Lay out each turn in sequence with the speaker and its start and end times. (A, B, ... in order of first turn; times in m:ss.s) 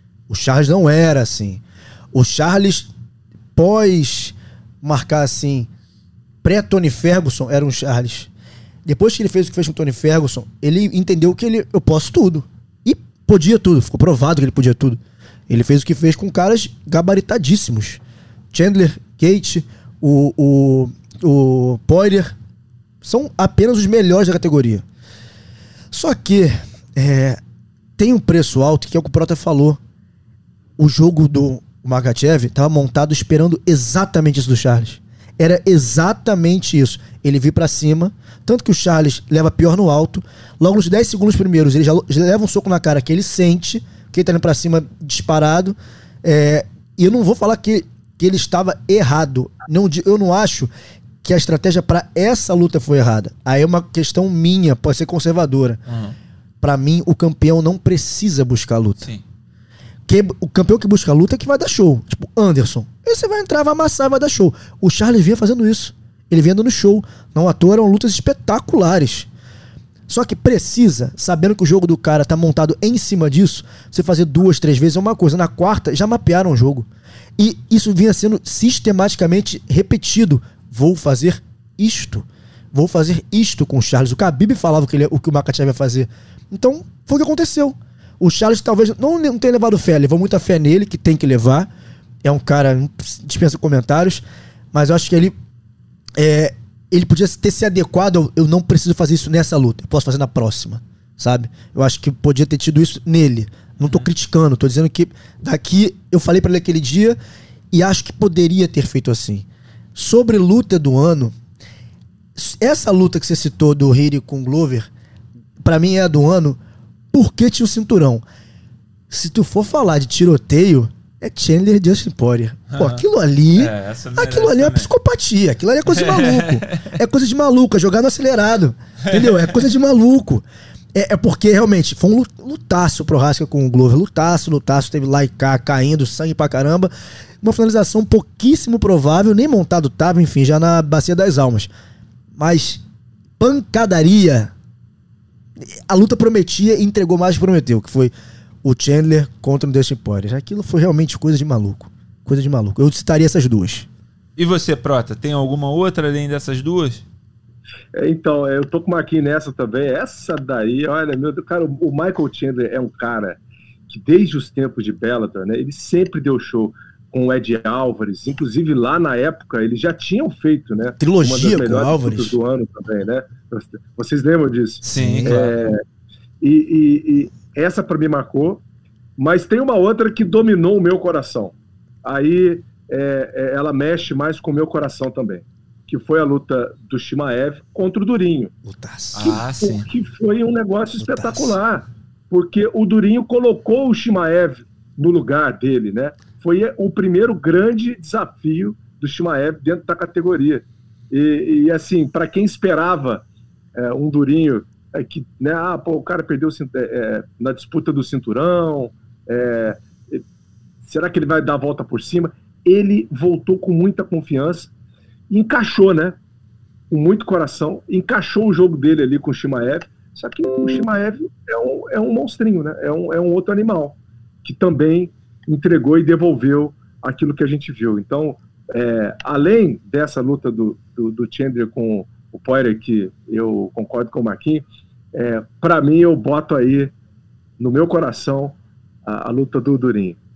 0:00.3-0:01.6 A
0:02.1-0:02.9 A
0:03.6-0:05.7 A
0:06.4-0:08.3 A
0:08.8-0:18.0 A
0:18.5-0:22.3 A
0:23.0-0:24.8 A
0:25.9-0:27.4 A
0:28.0-0:29.8 A
0:30.8-0:50.7 A
0:51.2-0:55.8 A
0:55.9-0:56.1 B
0:56.6-0:59.1 A
1:00.1-1:09.3 A
1:10.1-1:16.9 A
1:17.4-1:31.7 A
1:32.2-1:35.3 A
1:36.2-1:47.2 A
1:43.8-1:44.1 B
1:47.7-1:51.3 A
1:52.4-1:54.9 A
1:55.6-1:56.6 A
1:57.1-1:58.2 A
1:59.1-2:16.9 A
2:02.7-2:03.0 B
2:03.6-2:04.9 B
2:05.9-2:06.9 B
2:09.0-2:09.6 B
2:17.4-2:21.7 A
2:22.4-2:22.8 A
2:23.4-2:24.5 A
2:25.6-2:28.1 A
2:28.6-2:33.9 A
2:34.4-2:37.0 B
2:37.9-2:55.8 C
2:51.0-2:52.4 A
2:54.8-2:55.4 A
2:54.9-2:55.5 B
2:56.4-2:58.6 C
2:59.2-3:08.5 C
3:08.6-3:09.4 A
3:09.1-3:09.9 B
3:09.2-3:23.2 C
3:11.0-3:11.6 A
3:23.8-3:30.2 C
3:30.8-3:34.7 C
3:35.3-3:36.2 C
3:36.9-3:56.9 C
3:57.6-4:00.2 C